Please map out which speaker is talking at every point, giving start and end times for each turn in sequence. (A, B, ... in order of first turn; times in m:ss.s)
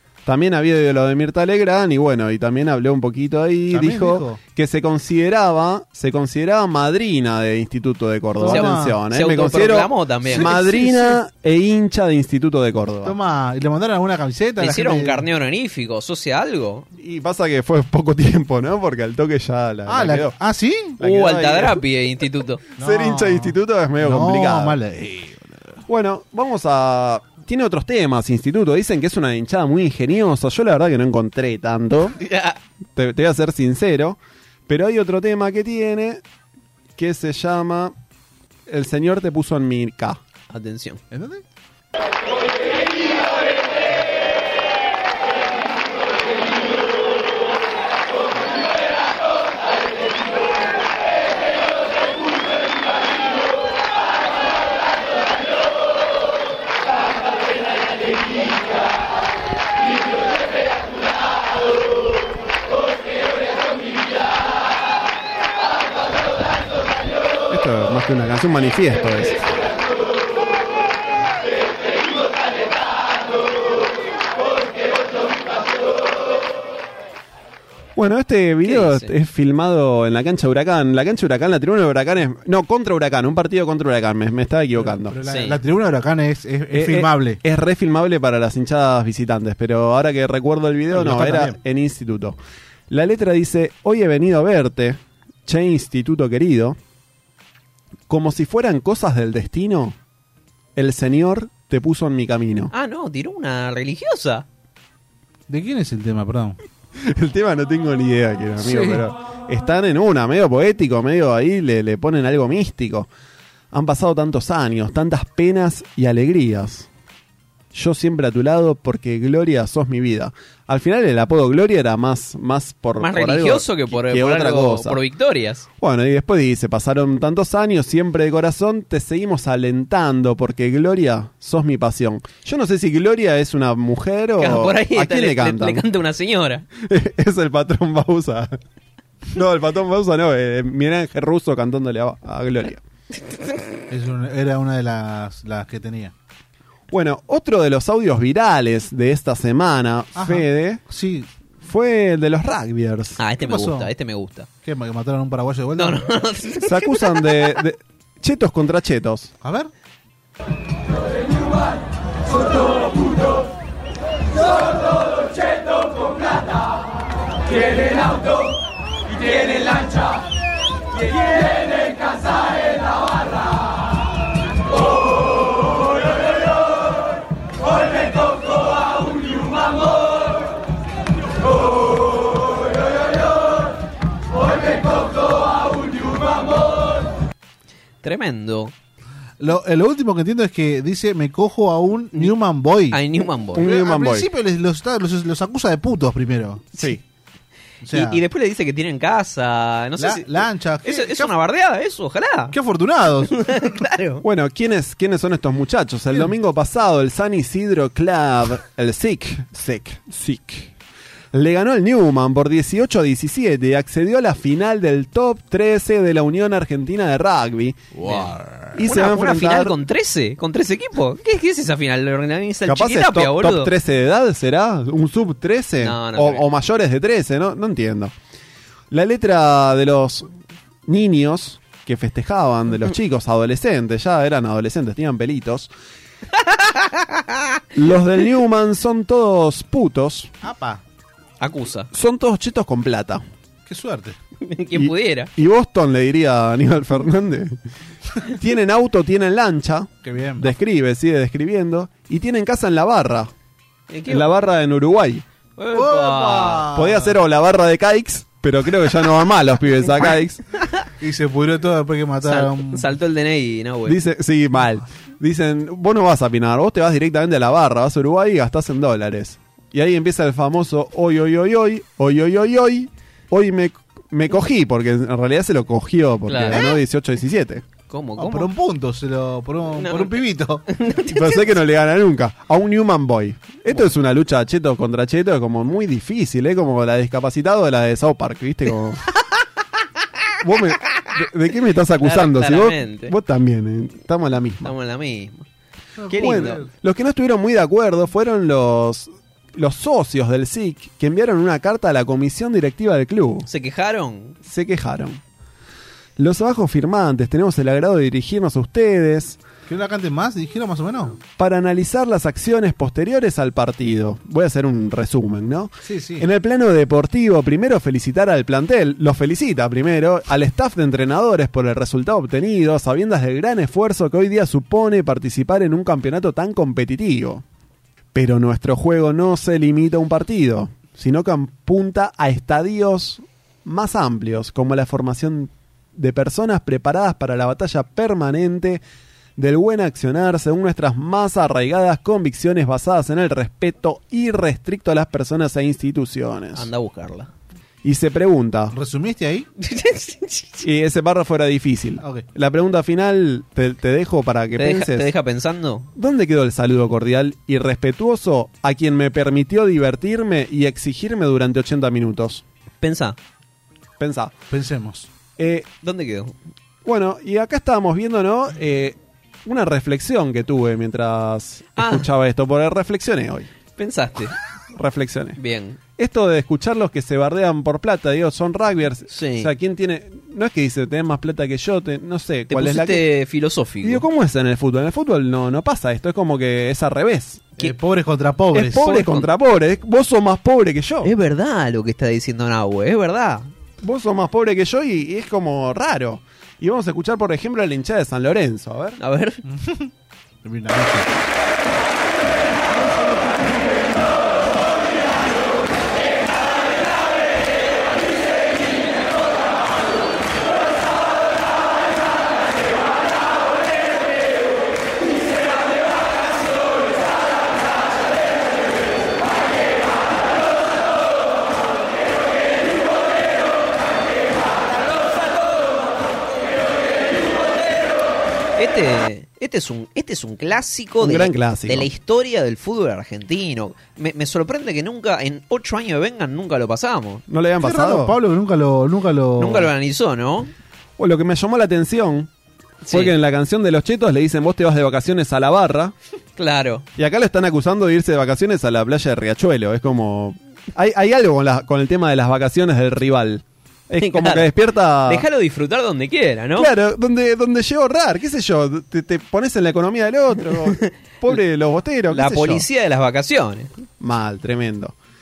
0:00.3-0:13.2 A
0:03.7-0:04.4 B
0:08.4-0:09.0 B
0:08.4-0:10.9 C
0:10.2-0:11.2 B
0:13.0-0:15.3 B
0:14.6-0:16.9 C
0:17.0-0:20.4 A
0:19.9-0:21.0 B
0:21.0-0:21.8 A
0:21.0-0:22.6 C
0:22.8-0:25.8 B
0:22.8-0:24.8 A
0:25.9-0:32.2 A
0:32.2-0:32.6 C
0:33.0-0:36.2 A
0:37.0-0:38.0 A
0:38.7-0:40.2 A
0:40.5-0:41.0 C
0:41.1-0:41.4 B
1:07.5-1:09.4 A
1:18.0-1:25.2 A
1:18.6-1:19.1 C
1:24.7-1:27.4 B
1:25.2-1:25.6 C
1:26.7-1:32.4 A
1:30.9-1:31.6 B
1:32.9-1:36.8 A
1:38.1-1:40.0 A
1:40.8-1:42.7 A
1:42.7-1:44.5 C
1:45.5-1:46.6 B
1:47.0-1:53.1 A
1:48.6-1:49.0 B
1:53.7-1:56.9 A
1:57.7-2:05.0 A
2:03.0-2:05.7 C
2:05.8-2:15.8 A
2:14.4-2:16.7 C
2:16.8-2:18.6 A
2:19.3-2:22.8 A
2:23.9-2:26.1 B
2:26.9-2:30.8 A
2:30.2-2:31.3 B
2:31.6-2:33.2 A
2:33.2-2:34.5 C
2:33.4-2:33.9 B
2:34.6-2:36.0 B
2:35.8-2:37.3 C
2:36.6-2:39.3 A
2:39.4-2:39.7 B
3:08.0-3:08.7 C
3:09.4-3:13.0 B
3:12.9-3:13.7 C
3:13.6-3:14.3 A
3:13.6-3:16.9 B
3:17.8-3:18.2 B
3:17.9-3:22.6 C
3:20.0-3:21.3 B
3:22.5-3:23.7 B
3:23.4-3:24.2 C
3:24.2-3:30.7 A
3:31.3-3:37.9 A
3:38.0-3:38.7 B
3:38.0-3:43.7 C
3:38.7-3:39.8 A
3:42.7-3:48.1 A
3:45.8-3:46.5 C
3:48.9-3:50.3 A
3:50.9-3:55.7 A
3:56.5-3:57.4 C
3:57.8-4:00.3 A
4:00.4-4:00.8 B
4:01.4-4:01.9 C
4:01.9-4:03.2 A
4:03.7-4:04.2 B
4:04.4-4:05.3 C
4:04.8-4:07.6 A
4:08.2-4:13.3 A
4:10.0-4:10.5 B
4:13.9-4:14.4 C
4:14.1-4:15.2 A
4:15.6-4:16.7 C
4:15.7-4:17.2 B
4:16.7-4:20.4 A
4:21.0-4:22.9 B
4:22.2-4:24.0 C
4:23.9-4:37.6 A
4:36.3-4:36.8 C
4:37.9-4:38.5 C
4:38.2-4:40.6 B
4:39.8-4:41.6 C
4:41.1-4:49.0 A
4:50.4-4:54.7 A
4:52.0-4:53.1 C
4:54.6-4:55.5 C
4:56.0-4:56.7 B
4:56.1-4:56.6 C
4:56.2-5:03.5 A
5:03.5-5:04.4 C
5:04.4-5:05.2 A
5:06.2-5:09.4 A
5:09.7-5:11.2 B
5:11.4-5:27.4 A
5:15.8-5:16.3 B
5:28.1-5:38.8 A
5:39.4-5:46.7 A
5:46.6-5:47.3 C
5:47.8-5:48.8 A
5:48.7-5:49.5 B
5:49.6-5:50.6 C
5:50.6-5:55.1 A
5:52.0-5:52.2 B
5:54.6-5:55.9 C
5:56.0-6:02.4 A
6:02.8-6:03.2 C
6:04.0-6:04.3 A
6:04.5-6:05.1 B
6:05.4-6:05.7 A
6:05.8-6:06.3 C
6:06.8-6:13.5 A
6:11.8-6:12.0 C
6:13.8-6:14.3 C
6:14.8-6:15.4 A
6:15.4-6:15.8 C
6:16.0-6:23.1 A
6:19.1-6:19.5 C
6:22.5-6:24.0 C
6:23.8-6:27.5 A
6:27.6-6:28.9 B
6:28.5-6:31.1 A
6:28.7-6:29.3 C
6:31.0-6:33.5 C
6:33.8-6:39.0 A
6:39.0-6:39.4 C
6:39.4-6:39.9 B
6:40.4-6:41.1 B
7:08.6-7:17.3 C
7:11.0-7:11.9 A
7:17.3-7:18.2 A
7:17.6-7:19.7 B
7:19.4-7:20.5 C
7:21.0-7:22.3 A
7:22.8-7:23.1 C
7:22.9-7:25.9 A
7:26.4-7:26.9 C
7:27.0-7:35.2 A
7:34.0-7:34.5 C
7:35.1-7:36.7 C
7:36.6-7:42.7 A
7:40.8-7:41.4 C
7:42.1-7:43.7 C
7:44.0-7:45.0 A